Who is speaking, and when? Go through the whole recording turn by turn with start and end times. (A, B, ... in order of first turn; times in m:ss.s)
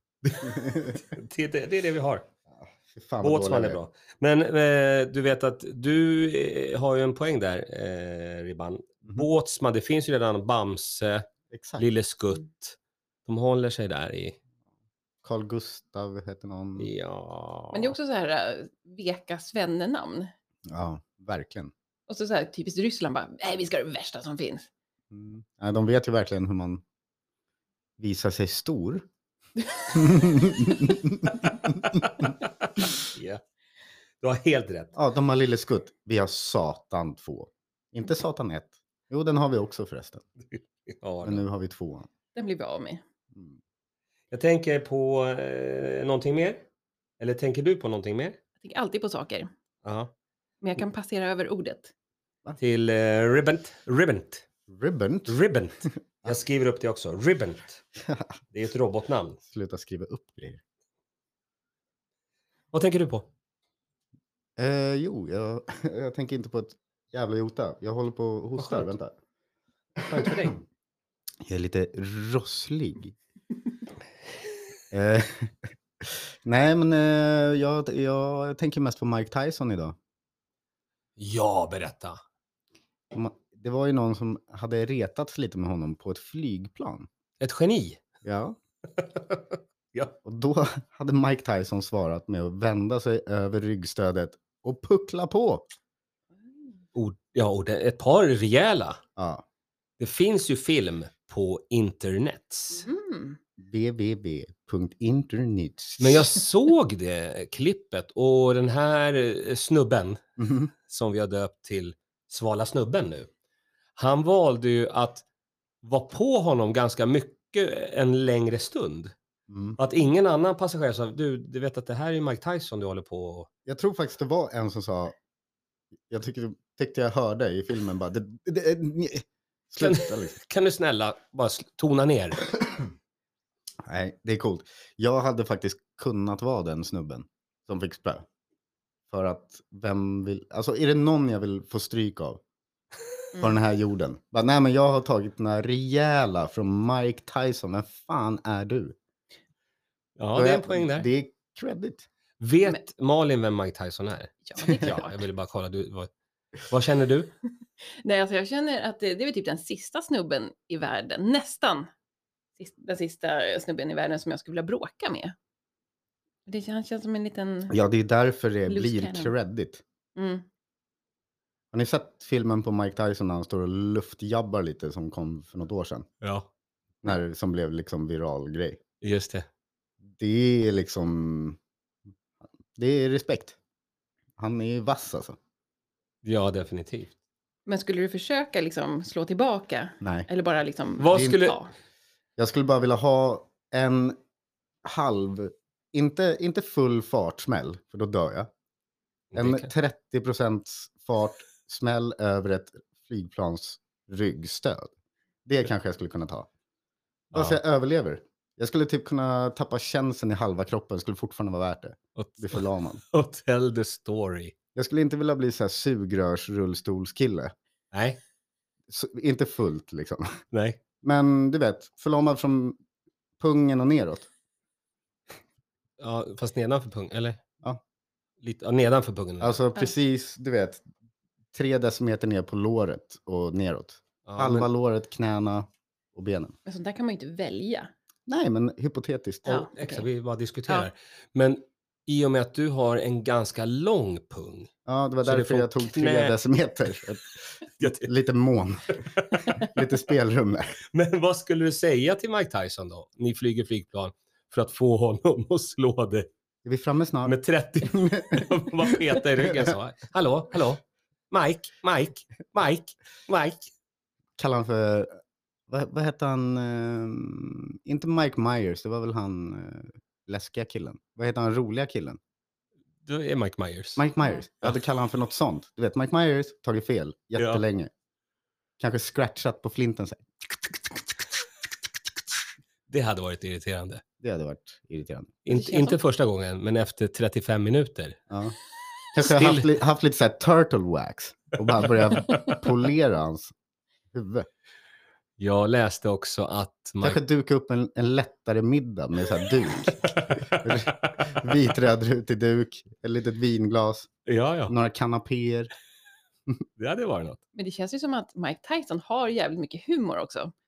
0:00.2-0:01.0 A
0:00.4-0:02.3 B
0:02.5-0:03.8 A
0:03.2-0:11.3 B
0:11.5-0:11.8 A
0:11.8-0:14.4 B
0:15.2-0:16.9 A
0:16.8-0:17.9 B
0:17.7-0:20.3 C
0:20.7-0:21.7 A
0:22.1-0:24.7 C
0:25.1-0:26.8 A
0:28.0-0:29.0 A
0:29.6-0:30.4 C
0:29.9-0:32.2 A
0:32.2-0:33.4 B
0:34.2-0:34.9 B
0:35.0-0:40.2 A
0:40.5-0:41.4 B
0:41.2-0:42.1 A
0:42.3-0:43.0 C
0:44.3-0:46.6 B
0:47.2-0:48.4 B
0:48.6-0:49.5 C
0:49.8-0:50.1 B
0:50.6-0:51.9 C
0:52.6-0:54.4 B
0:54.7-0:55.4 A
0:55.3-0:57.8 B
0:58.0-0:58.3 A
0:58.5-0:59.4 B
0:59.5-1:00.6 A
1:02.7-1:03.3 B
1:04.6-1:09.1 A
1:08.6-1:08.9 B
1:10.0-1:10.6 B
1:11.4-1:13.1 A
1:14.9-1:20.0 A
1:21.2-1:22.2 B
1:23.1-1:27.1 A
1:27.4-1:28.0 B
1:28.2-1:28.6 A
1:29.0-1:30.1 B
1:30.2-1:35.7 A
1:36.9-1:39.0 B
1:39.2-1:39.4 A
1:40.0-1:42.9 B
1:42.8-1:43.4 C
1:43.6-1:46.3 A
1:46.0-1:53.3 B
1:50.4-1:50.7 A
1:54.0-1:55.2 B
1:55.8-1:59.1 B
1:59.5-1:59.8 A
1:59.8-2:03.5 B
2:03.6-2:05.2 A
2:06.1-2:10.4 A
2:09.8-2:12.5 B
2:13.8-2:18.2 A
2:19.1-2:22.4 A
2:23.4-2:29.0 A
2:30.2-2:31.1 B
2:30.3-2:32.0 A
2:32.4-2:36.1 B
2:34.5-2:35.1 C
2:36.7-2:37.3 B
2:38.0-2:41.9 C
2:42.6-2:45.3 C
2:46.5-2:47.7 C
2:47.7-2:49.8 A
2:48.7-2:49.3 C
2:50.2-2:50.4 C
2:51.7-2:56.1 A
2:56.2-2:56.5 B
2:57.0-2:58.8 A
2:59.0-2:59.5 B
3:00.2-3:01.6 A
3:02.7-3:03.6 A
3:04.4-3:05.4 A
3:06.2-3:07.1 B
3:07.7-3:11.7 C
3:10.0-3:10.3 A
3:11.0-3:11.6 B
3:12.4-3:14.2 A
3:14.8-3:18.5 A
3:19.3-3:19.7 B
3:19.3-3:24.9 A
3:25.4-3:26.5 A
3:27.3-3:27.6 B
3:27.3-3:33.0 A
3:32.2-3:34.5 B
3:34.7-3:37.5 A
3:37.9-3:38.2 B
3:38.9-3:40.4 A
3:40.5-3:40.8 B
3:41.0-3:42.8 A
3:43.4-3:44.3 A
3:46.0-3:47.4 B
3:48.4-3:49.6 B
3:49.4-3:50.8 A
3:51.5-3:56.6 A
3:54.2-3:54.7 B
3:56.6-3:57.9 C
3:58.3-3:59.7 A
3:59.4-4:00.0 C
3:59.6-4:04.7 B
4:04.8-4:10.8 A
4:05.2-4:06.4 B
4:07.8-4:08.1 B
4:09.2-4:09.5 B
4:10.9-4:16.3 B
4:16.6-4:19.7 A
4:17.2-4:23.7 B
4:24.4-4:25.1 A
4:25.7-4:32.2 A
4:33.0-4:34.0 B
4:34.0-4:37.9 A
4:37.4-4:37.6 B
4:38.8-4:40.2 A
4:42.9-4:44.0 B
4:44.2-4:45.3 A
4:45.4-4:48.2 B
4:45.5-4:46.0 C
4:48.3-4:48.5 A
4:49.1-4:53.5 A
4:49.2-4:49.7 B
4:54.1-4:54.5 A
4:55.4-4:57.2 B
4:57.0-5:04.1 A
4:59.8-5:01.4 B
5:04.2-5:04.7 B
5:04.7-5:05.7 A
5:06.8-5:07.4 B
5:07.5-5:10.5 C